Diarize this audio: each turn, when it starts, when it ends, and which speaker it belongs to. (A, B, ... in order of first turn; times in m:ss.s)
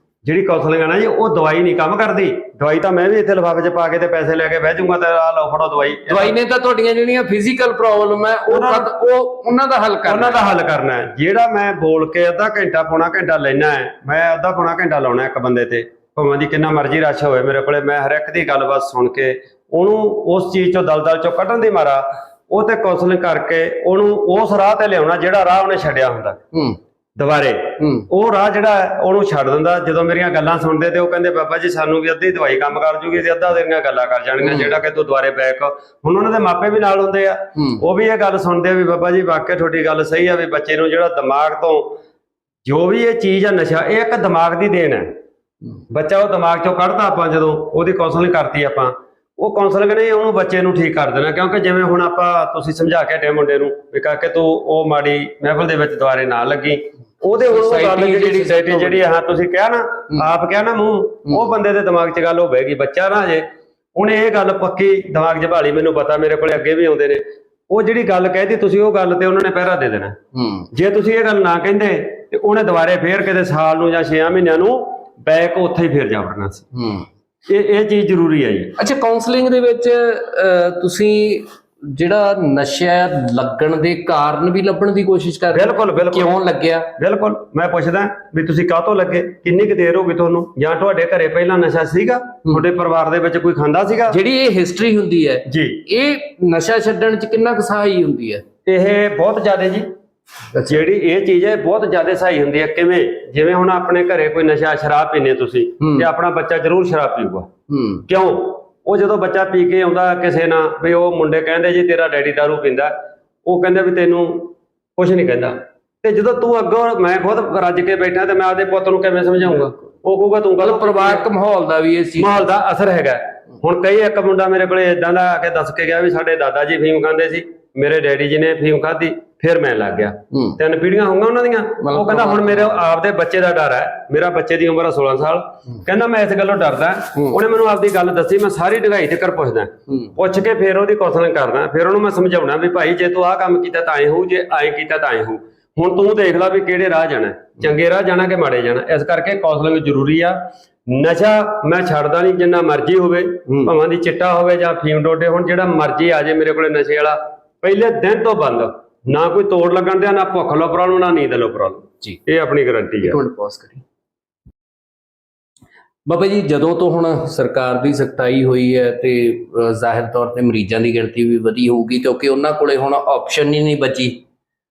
0:00.2-0:06.4 A
0:06.1-0:10.4 B
0:08.5-0:08.9 A
0:10.1-0:26.4 A
0:26.5-0:26.8 B
0:27.2-0:41.9 A
0:27.8-0:28.1 B
0:34.4-0:34.8 B
0:37.6-0:37.8 B
0:42.6-0:45.1 A
0:45.9-1:10.2 A
0:57.4-0:59.0 B
1:10.3-1:10.7 B
1:10.7-1:16.7 A
1:16.7-1:17.1 B
1:17.5-1:18.8 A
1:18.8-1:26.9 B
1:25.5-1:26.3 A
1:27.0-1:34.2 A
1:34.1-1:38.4 B
1:35.5-1:35.8 A
1:38.7-1:39.9 A
1:40.5-1:40.8 B
1:40.7-1:47.5 A
1:45.8-1:46.1 B
1:47.7-1:48.0 B
1:48.1-1:52.9 A
1:53.4-2:01.3 A
2:00.6-2:02.5 B
2:02.2-2:43.2 A
2:10.3-2:10.6 B
2:11.8-2:12.9 B
2:33.5-2:33.7 B
2:43.0-2:43.8 B
2:46.1-2:54.2 B